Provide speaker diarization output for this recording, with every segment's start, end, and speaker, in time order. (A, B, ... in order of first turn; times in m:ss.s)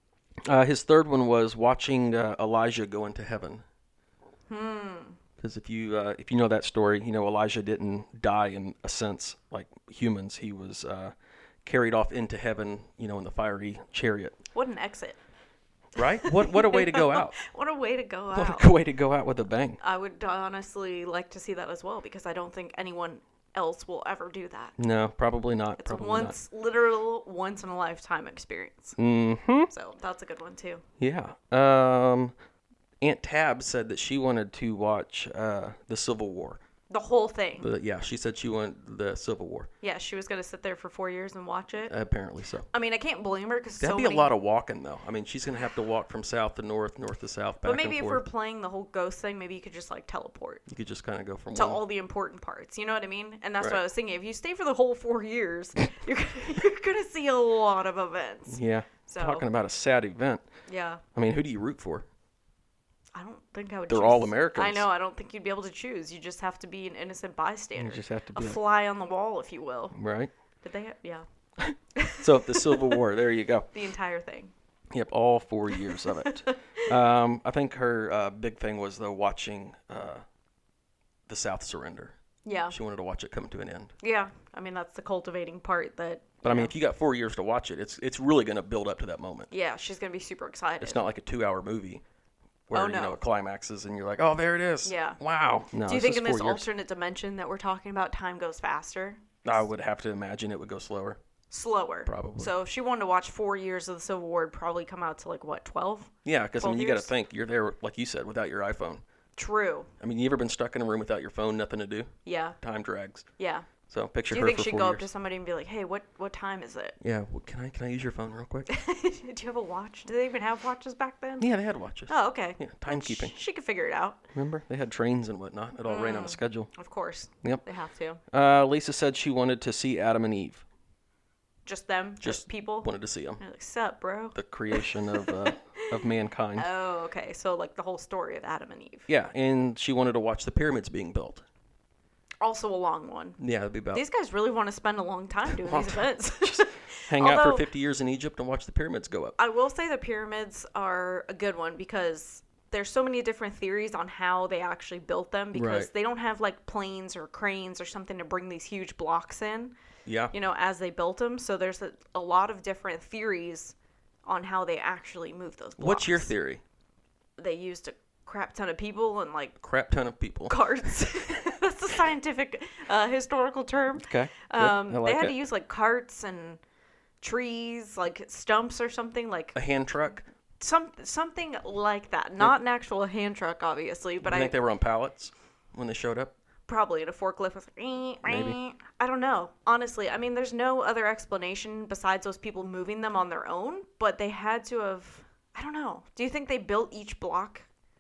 0:00.5-0:03.6 A
0:04.5-0:05.2 B
0:05.4-0:11.1 A
0:11.6-0:14.4 A
0:14.5-0:15.2 B
0:16.0-0:17.4 A
0:16.0-0:18.7 B
0:18.3-0:19.8 A
0:19.8-0:24.8 B
0:24.8-0:26.4 A
0:25.8-0:29.0 B
0:29.0-0:29.7 A
0:29.7-0:30.8 B
0:31.0-0:32.3 A
0:33.0-0:36.6 A
0:36.9-0:37.7 B
0:37.6-0:39.7 A
0:39.8-0:41.9 B
0:41.9-0:42.7 A
0:42.7-0:44.3 B
0:43.8-0:48.2 A
0:47.6-0:50.6 B
0:50.7-0:51.8 A
0:51.6-0:59.4 B
0:58.5-1:00.4 A
1:00.7-1:01.0 B
1:01.2-1:02.1 A
1:03.2-1:10.0 B
1:03.9-1:04.9 A
1:07.8-1:08.6 A
1:09.9-1:10.3 A
1:10.6-1:11.2 B
1:11.6-1:13.7 A
1:12.0-1:13.0 B
1:13.7-1:14.5 B
1:14.9-1:20.2 A
1:15.7-1:16.8 B
1:21.3-1:22.2 A
1:22.4-1:22.8 B
1:22.7-1:23.9 A
1:24.0-1:26.7 B
1:26.4-1:29.5 A
1:29.5-1:31.0 B
1:30.8-1:32.0 A
1:32.7-1:36.7 A
1:32.7-1:33.2 B
1:34.8-1:35.2 B
1:35.9-1:39.2 B
1:39.4-1:41.2 A
1:41.5-1:47.1 B
1:42.1-1:42.5 A
1:46.2-1:49.0 A
1:49.4-1:49.9 B
1:50.0-1:53.3 A
1:52.3-1:52.6 B
1:53.4-1:53.7 B
1:53.9-1:55.1 A
1:54.3-1:57.0 B
1:57.0-1:58.7 A
1:58.7-2:01.5 B
2:01.4-2:03.4 A
2:02.1-2:04.3 B
2:04.3-2:06.7 A
2:05.9-2:08.2 B
2:08.3-2:10.6 A
2:11.7-2:19.1 B
2:12.2-2:13.4 A
2:14.4-2:16.7 A
2:19.1-2:21.4 A
2:22.4-2:23.4 B
2:23.4-2:24.0 A
2:23.9-2:27.6 B
2:25.5-2:29.4 A
2:29.4-2:39.7 B
2:35.5-2:35.9 A
2:40.1-2:40.3 A
2:40.3-2:46.3 B
2:45.8-2:46.6 A
2:47.4-2:49.6 B
2:49.6-2:50.6 A
2:50.5-2:56.6 B
2:54.0-2:55.4 A
2:57.2-2:59.6 B
2:59.6-3:00.2 A
3:00.6-3:04.6 B
3:04.2-3:06.3 A
3:06.7-3:17.7 B
3:08.2-3:08.6 A